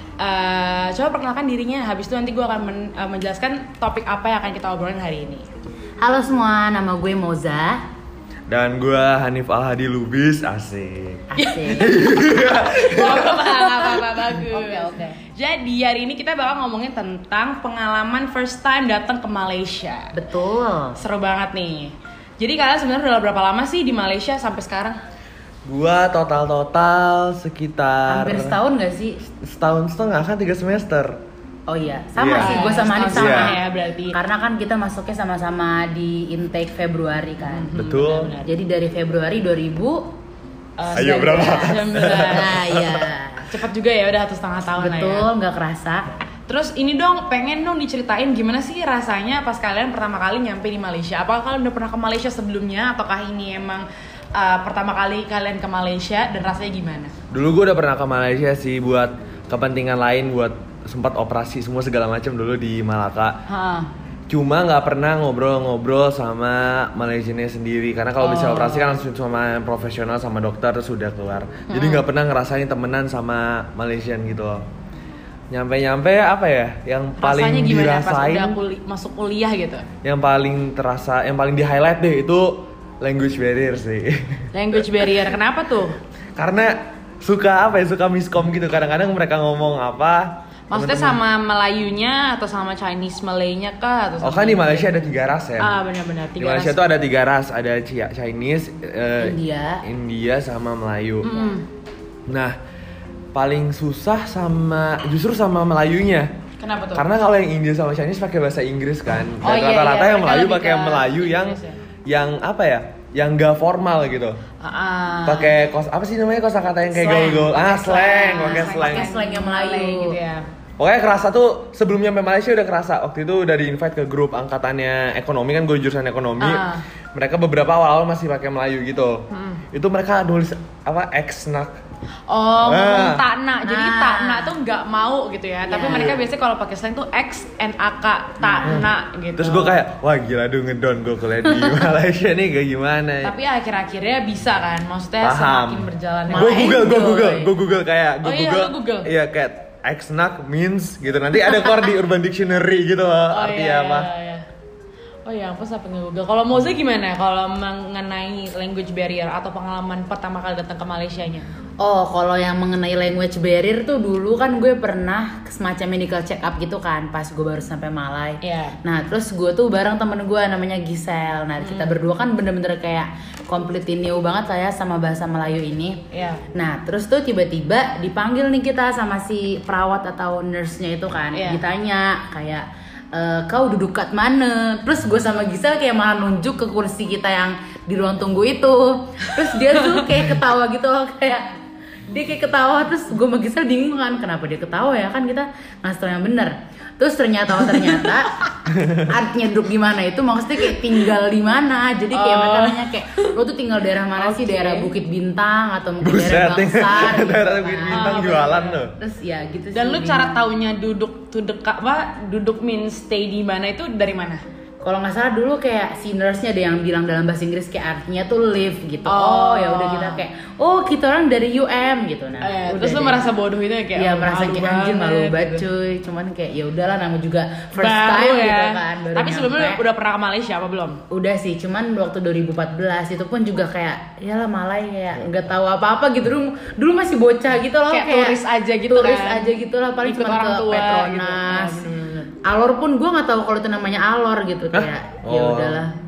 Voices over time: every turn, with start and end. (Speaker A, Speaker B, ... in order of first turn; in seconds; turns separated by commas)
Speaker A: 0.2-5.5, Speaker B: 6.0-7.8, Speaker C: 8.5-13.5, Speaker B: 11.3-12.0, Speaker A: 11.4-20.1, Speaker B: 13.7-15.2, Speaker B: 20.1-21.0, Speaker A: 21.0-25.0, Speaker C: 25.7-28.6, Speaker B: 28.1-29.2, Speaker C: 29.3-31.2, Speaker B: 31.7-40.1, Speaker C: 32.2-33.6, Speaker A: 32.4-34.2, Speaker A: 37.4-38.5, Speaker C: 37.8-38.3, Speaker A: 40.8-42.6, Speaker C: 40.9-43.0, Speaker B: 41.4-41.7, Speaker B: 42.2-43.5, Speaker A: 43.5-45.3, Speaker B: 44.8-46.1, Speaker A: 46.5-57.1, Speaker C: 57.3-63.4, Speaker A: 63.5-63.9, Speaker C: 64.3-74.7, Speaker A: 68.2-69.0, Speaker A: 71.7-72.0, Speaker C: 75.5-78.6, Speaker A: 77.2-79.9, Speaker C: 80.0-84.5, Speaker A: 84.5-86.0, Speaker C: 86.4-91.2, Speaker A: 90.7-95.0, Speaker C: 94.2-95.7, Speaker A: 95.6-96.8, Speaker C: 96.4-101.5, Speaker B: 99.2-99.8, Speaker A: 101.2-101.7, Speaker C: 102.3-102.6, Speaker C: 103.3-106.3, Speaker A: 106.6-107.1, Speaker C: 107.0-114.4, Speaker A: 109.4-111.8, Speaker A: 114.6-115.5, Speaker C: 115.3-119.0, Speaker A: 116.9-120.5, Speaker B: 118.3-120.2, Speaker C: 120.8-131.8, Speaker A: 126.4-126.8, Speaker A: 129.3-129.6, Speaker A: 132.3-139.8, Speaker C: 132.6-133.2, Speaker B: 133.6-134.6, Speaker B: 135.7-136.2, Speaker C: 138.6-143.3, Speaker A: 143.2-146.9, Speaker C: 145.2-154.1, Speaker B: 146.3-147.5, Speaker A: 148.2-149.1, Speaker A: 153.3-154.4, Speaker A: 155.2-161.5, Speaker B: 161.8-176.0, Speaker A: 168.4-168.8, Speaker A: 171.6-172.0, Speaker A: 176.1-176.4, Speaker B: 176.5-191.5, Speaker A: 181.3-181.6, Speaker B: 192.1-198.3, Speaker A: 197.7-198.1, Speaker C: 198.7-199.1, Speaker B: 199.0-210.4, Speaker A: 202.1-203.3, Speaker A: 204.2-204.9, Speaker C: 206.0-208.9, Speaker A: 207.9-208.8, Speaker A: 209.7-214.4, Speaker B: 214.8-223.3, Speaker A: 219.1-220.2, Speaker A: 222.4-225.6, Speaker B: 223.9-229.8, Speaker A: 227.8-231.0, Speaker B: 231.1-241.9, Speaker A: 237.9-242.4, Speaker B: 242.4-245.9, Speaker C: 244.7-245.8